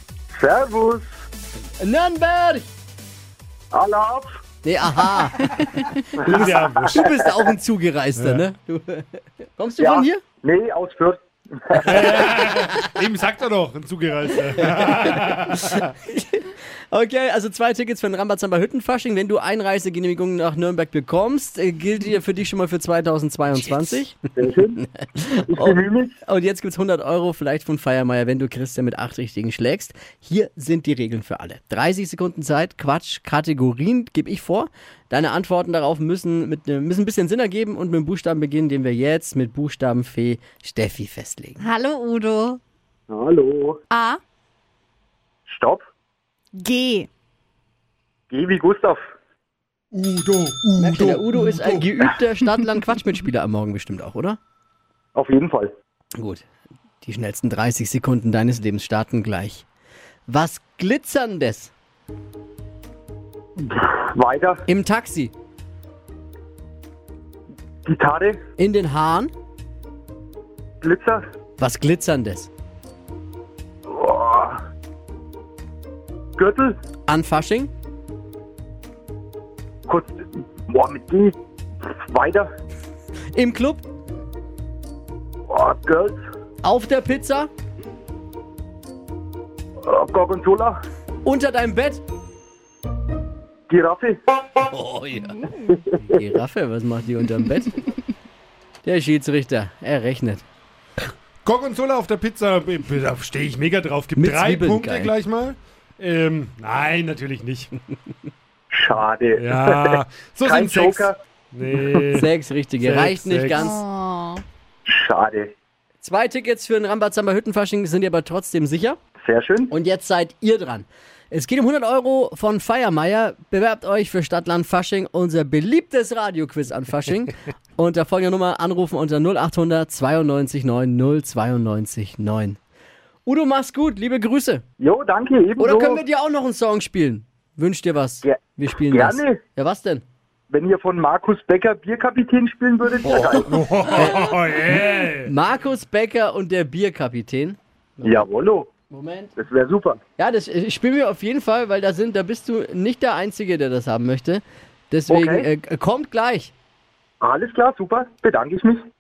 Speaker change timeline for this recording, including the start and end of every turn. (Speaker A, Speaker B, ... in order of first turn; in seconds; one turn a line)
Speaker A: 0.3-1.1
Speaker B: 1.8-2.7
Speaker A: 3.7-4.4
Speaker B: 4.6-10.2
Speaker A: 6.2-7.3
Speaker C: 6.2-7.0
Speaker C: 8.2-8.4
Speaker A: 9.8-12.2
Speaker C: 11.8-15.8
Speaker B: 14.6-24.2
Speaker A: 24.4-24.8
Speaker B: 24.8-41.6
Speaker A: 25.5-26.1
Speaker D: 41.6-42.6
Speaker A: 43.1-43.8
Speaker D: 43.9-44.2
Speaker A: 45.5-45.8
Speaker D: 46.6-47.1
Speaker A: 48.3-49.0
Speaker C: 49.9-51.9
Speaker B: 50.8-54.4
Speaker A: 55.1-55.7
Speaker B: 56.2-56.5
Speaker B: 57.0-59.7
Speaker B: 60.3-61.7
Speaker A: 63.6-64.6
Speaker B: 64.7-65.3
Speaker A: 67.9-68.4
Speaker B: 68.6-69.3
Speaker A: 70.8-71.2
Speaker B: 71.6-72.5
Speaker A: 73.9-74.6
Speaker A: 76.4-76.8
Speaker B: 77.1-77.7
Speaker A: 80.7-82.5
Speaker B: 83.3-83.8
Speaker A: 85.5-86.2
Speaker B: 86.6-87.5
Speaker A: 89.8-90.8
Speaker B: 91.2-92.0
Speaker A: 93.7-94.2
Speaker B: 94.6-97.9
Speaker B: 98.8-100.4
Speaker C: 101.4-107.7
Speaker B: 104.2-105.1
Speaker A: 108.7-111.2
Speaker C: 109.3-112.3
Speaker A: 111.7-112.0
Speaker B: 112.1-113.8
Speaker C: 112.8-113.8
Speaker D: 113.5-114.4
Speaker A: 114.9-115.5
Speaker B: 116.0-119.0
Speaker A: 119.2-119.7
Speaker B: 119.7-132.6
Speaker B: 133.3-134.6
Speaker A: 134.8-136.0
Speaker B: 135.6-140.0
Speaker A: 138.2-139.4
Speaker A: 140.5-144.0
Speaker B: 143.0-144.4
Speaker C: 143.1-145.3
Speaker B: 145.2-148.3
Speaker A: 148.0-148.7
Speaker B: 148.9-149.3
Speaker A: 149.4-150.0
Speaker B: 150.2-156.5
Speaker A: 155.1-155.5
Speaker A: 157.2-158.8